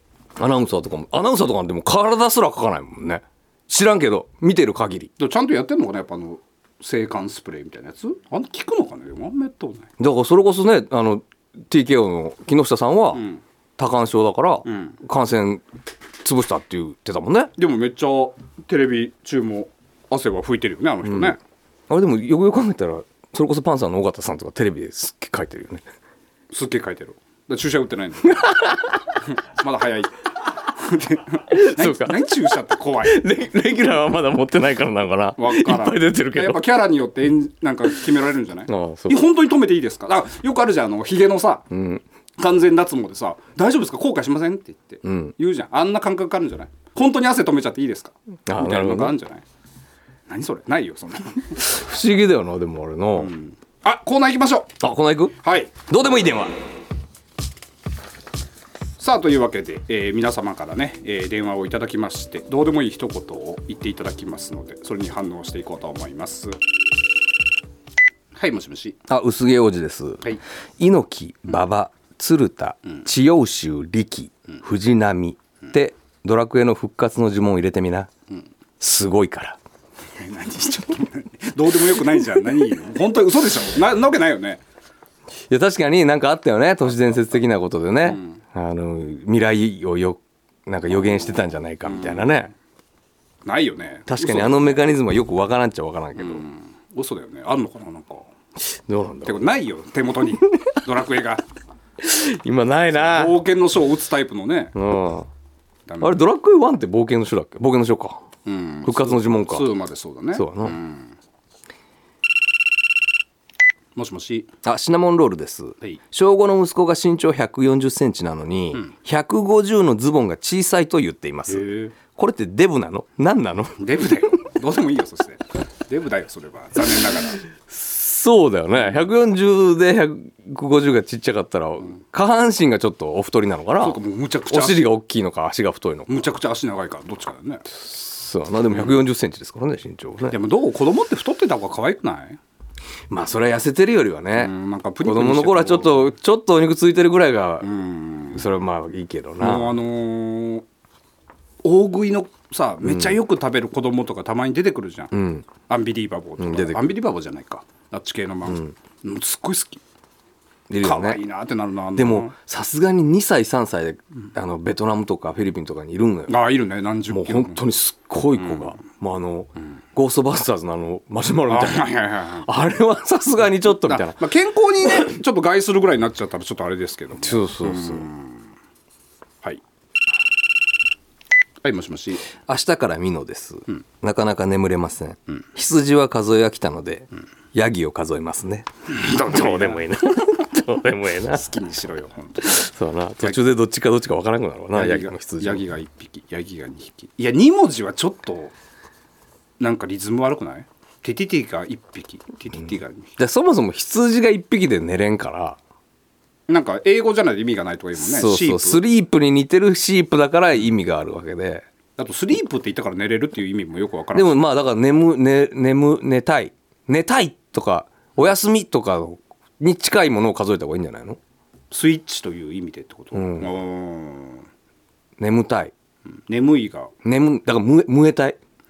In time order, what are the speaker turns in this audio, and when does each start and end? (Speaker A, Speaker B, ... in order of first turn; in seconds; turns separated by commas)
Speaker A: 0.4-5.1, Speaker B: 5.2-9.9, Speaker A: 10.0-13.2, Speaker B: 13.1-13.4, Speaker A: 13.8-15.6, Speaker B: 14.7-15.0, Speaker A: 16.2-17.5, Speaker B: 17.6-21.4, Speaker A: 21.1-21.4, Speaker A: 21.9-25.8, Speaker B: 26.5-28.7, Speaker A: 28.3-28.8, Speaker B: 29.2-30.1, Speaker B: 30.6-33.2, Speaker A: 31.5-32.3, Speaker A: 33.0-36.6, Speaker B: 35.4-41.6, Speaker A: 38.7-39.2, Speaker A: 41.7-42.0, Speaker B: 42.4-49.4, Speaker A: 45.0-45.3, Speaker A: 48.5-49.1, Speaker B: 50.3-51.7, Speaker A: 51.6-53.3, Speaker B: 53.1-54.7, Speaker A: 54.8-56.5, Speaker B: 55.4-55.8, Speaker B: 59.0-66.6, Speaker B: 68.3-69.0, Speaker A: 69.1-78.1, Speaker A: 78.8-79.6, Speaker B: 80.2-84.6, Speaker A: 85.5-92.5, Speaker B: 88.0-88.4, Speaker B: 91.8-92.3, Speaker B: 93.5-94.9, Speaker A: 94.1-96.4, Speaker B: 96.2-98.3, Speaker A: 98.6-99.5, Speaker B: 99.2-101.4, Speaker A: 102.0-103.4, Speaker B: 102.9-104.7, Speaker A: 104.7-105.3, Speaker B: 105.9-106.2, Speaker A: 106.0-108.2, Speaker B: 108.4-111.1, Speaker A: 108.8-109.7, Speaker A: 110.3-110.8, Speaker B: 114.0-114.5, Speaker A: 114.6-123.8, Speaker B: 121.5-121.9, Speaker B: 123.8-127.4, Speaker A: 127.6-136.3, Speaker B: 133.8-134.9, Speaker B: 136.1-137.6, Speaker A: 137.7-140.3, Speaker B: 138.7-139.0, Speaker B: 140.3-142.4, Speaker A: 143.1-144.5, Speaker B: 144.3-146.1, Speaker A: 145.0-147.7, Speaker B: 147.6-148.4, Speaker A: 148.3-149.7, Speaker B: 149.4-150.6, Speaker B: 151.6-159.8, Speaker A: 152.8-153.2, Speaker A: 155.1-155.5, Speaker A: 156.4-156.8, Speaker A: 158.5-158.7, Speaker A: 160.7-161.2, Speaker B: 160.8-162.3, Speaker A: 161.9-166.3, Speaker B: 166.3-167.6, Speaker A: 167.1-171.9, Speaker B: 168.3-168.8, Speaker B: 171.5-172.5, Speaker A: 172.4-174.2, Speaker B: 173.7-178.4, Speaker A: 177.2-178.1, Speaker B: 181.6-182.2, Speaker A: 182.4-191.4, Speaker B: 188.9-189.8, Speaker B: 191.3-192.7, Speaker A: 192.4-195.7, Speaker B: 194.7-198.5, Speaker B: 199.6-203.1, Speaker A: 203.2-205.6, Speaker B: 206.5-208.8, Speaker A: 208.0-211.7, Speaker B: 212.0-214.4, Speaker A: 214.1-221.2, Speaker B: 221.7-224.4, Speaker A: 223.1-223.5, Speaker A: 225.2-225.7, Speaker B: 226.3-226.9, Speaker A: 227.0-228.4